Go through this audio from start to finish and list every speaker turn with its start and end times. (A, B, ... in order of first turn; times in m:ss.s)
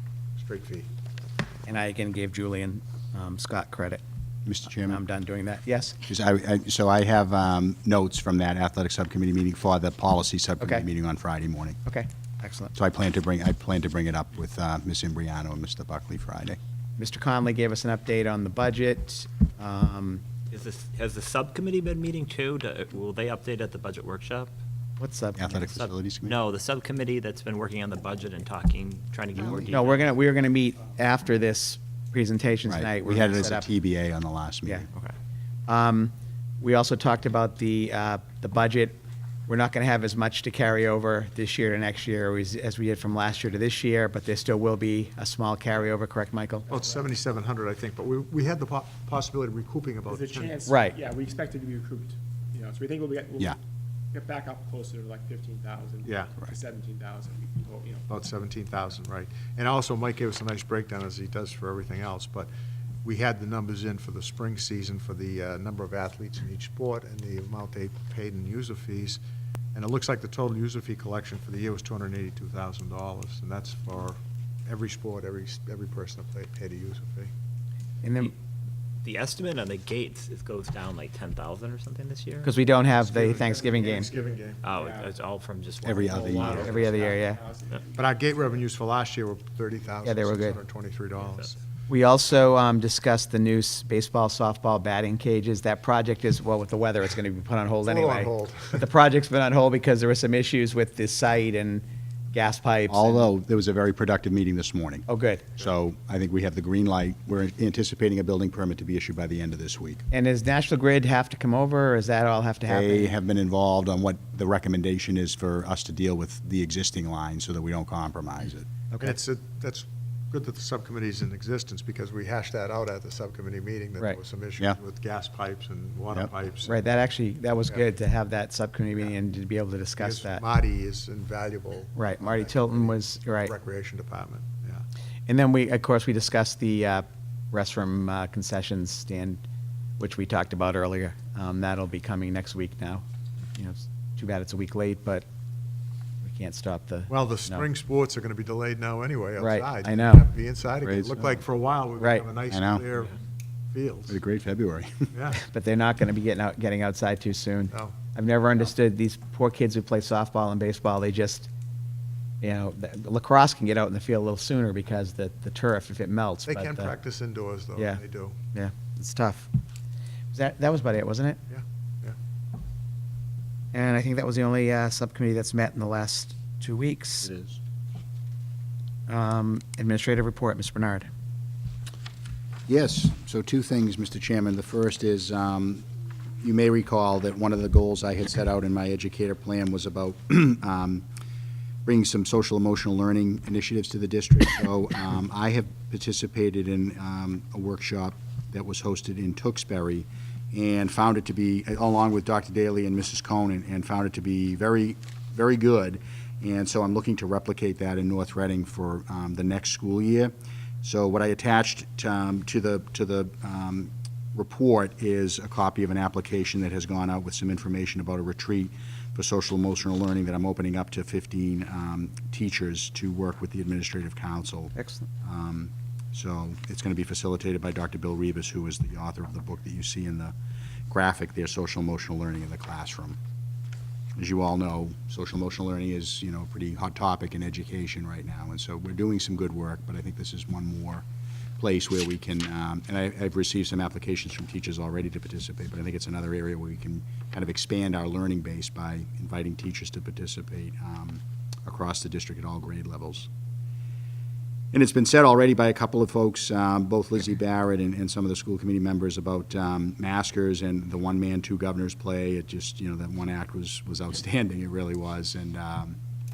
0:00.4-0:00.9 A
0:01.6-0:04.0 B
0:04.4-0:05.0 C
0:04.8-0:06.0 B
0:06.1-0:11.8 C
0:11.8-0:12.7 B
0:12.7-0:16.6 C
0:17.0-0:20.2 B
0:20.5-0:24.5 D
0:25.0-0:25.6 B
0:25.3-0:26.4 C
0:25.6-0:30.1 D
0:29.7-0:33.7 B
0:32.6-0:34.9 C
0:35.7-0:46.7 B
0:46.7-0:50.6 A
0:46.8-0:47.0 E
0:50.1-0:53.6 E
0:50.6-0:51.0 B
0:54.1-0:58.1 E
0:56.0-0:56.3 A
0:58.1-1:02.5 A
1:03.0-1:09.2 A
1:09.7-1:17.3 A
1:18.0-1:18.3 B
1:19.0-1:22.5 D
1:22.4-1:24.1 B
1:22.9-1:24.6 A
1:24.6-1:26.8 D
1:25.8-1:26.7 C
1:26.1-1:27.8 E
1:26.5-1:27.4 B
1:27.9-1:31.6 A
1:30.0-1:30.6 B
1:31.9-1:43.3 B
1:37.8-1:38.8 A
1:42.9-1:50.0 C
1:45.1-1:45.5 B
1:50.1-1:53.1 B
1:52.7-1:58.6 C
1:59.0-2:06.9 A
2:06.6-2:10.4 B
2:10.0-2:14.8 A
2:11.9-2:13.5 B
2:15.3-2:19.4 B
2:20.0-2:23.0 B
2:23.6-2:25.2 B
2:26.2-2:27.7 B
2:27.1-2:33.1 A
2:29.4-2:30.3 B
2:30.8-2:31.4 C
2:32.0-2:32.2 B
2:32.5-2:32.8 C
2:33.7-2:34.2 A
2:34.1-2:35.1 C
2:35.1-2:35.4 A
2:35.4-2:41.5 B
2:37.7-2:38.0 A
2:42.4-2:46.9 B
2:46.5-2:48.4 A
2:48.5-2:49.5 B
2:50.3-2:51.4 B
2:51.5-2:52.2 A
2:53.7-2:57.3 B
2:59.1-3:01.1 B
3:02.7-3:05.8 C
3:06.4-3:11.0 C
3:11.8-3:50.3 C
3:44.7-3:45.1 B
3:50.9-3:53.2 C
3:54.2-4:01.0 C
4:01.6-4:13.3 C
4:14.7-4:26.0 C